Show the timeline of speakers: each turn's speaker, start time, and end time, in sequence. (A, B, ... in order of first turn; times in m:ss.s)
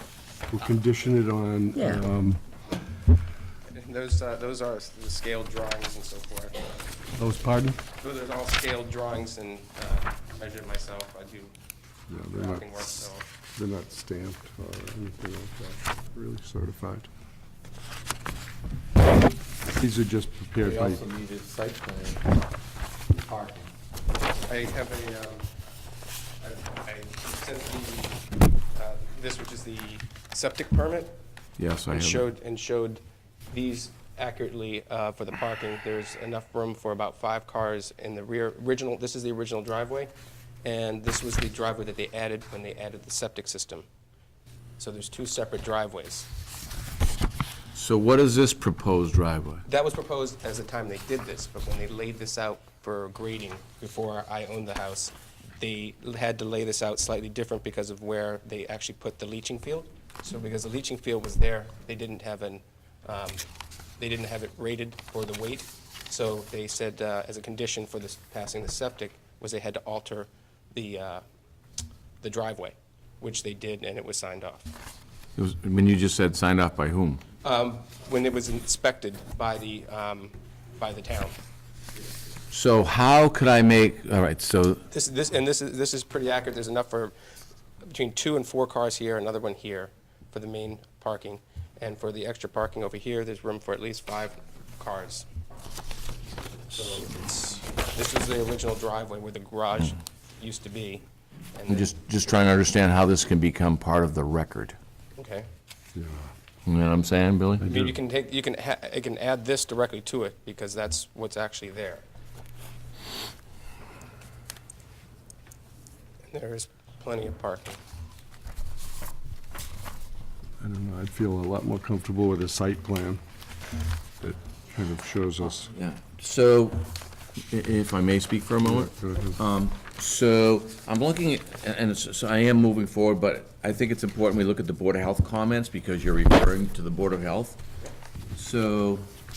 0:00.5-0:02.4 A
0:03.7-0:07.0 B
0:07.2-0:07.8 A
0:07.9-0:11.5 B
0:12.1-0:12.7 A
0:12.3-0:13.3 B
0:13.6-0:17.1 A
0:19.7-0:21.0 A
0:20.6-0:22.2 C
0:23.1-0:23.7 C
0:24.5-0:25.5 B
0:26.4-0:28.2 B
0:28.7-0:31.1 B
0:31.6-0:32.2 D
0:31.9-0:40.1 B
0:40.6-0:43.9 B
0:44.8-0:46.3 B
0:47.7-0:49.6 D
0:49.7-1:03.4 B
1:04.0-1:11.2 B
1:12.2-1:14.7 B
1:15.4-1:17.2 D
1:17.4-1:21.4 B
1:22.5-1:24.8 D
1:24.9-1:27.2 B
1:27.8-1:35.3 B
1:36.7-1:41.9 B
1:41.7-1:44.8 D
1:45.2-1:45.5 B
1:46.0-1:46.3 A
1:46.7-1:47.7 D
1:47.6-1:52.0 B
1:56.3-1:57.8 B
2:00.6-2:03.2 A
2:04.2-2:05.7 A
2:05.7-2:06.9 D
2:07.5-2:17.6 D
2:08.7-2:09.4 A
2:18.4-2:19.1 D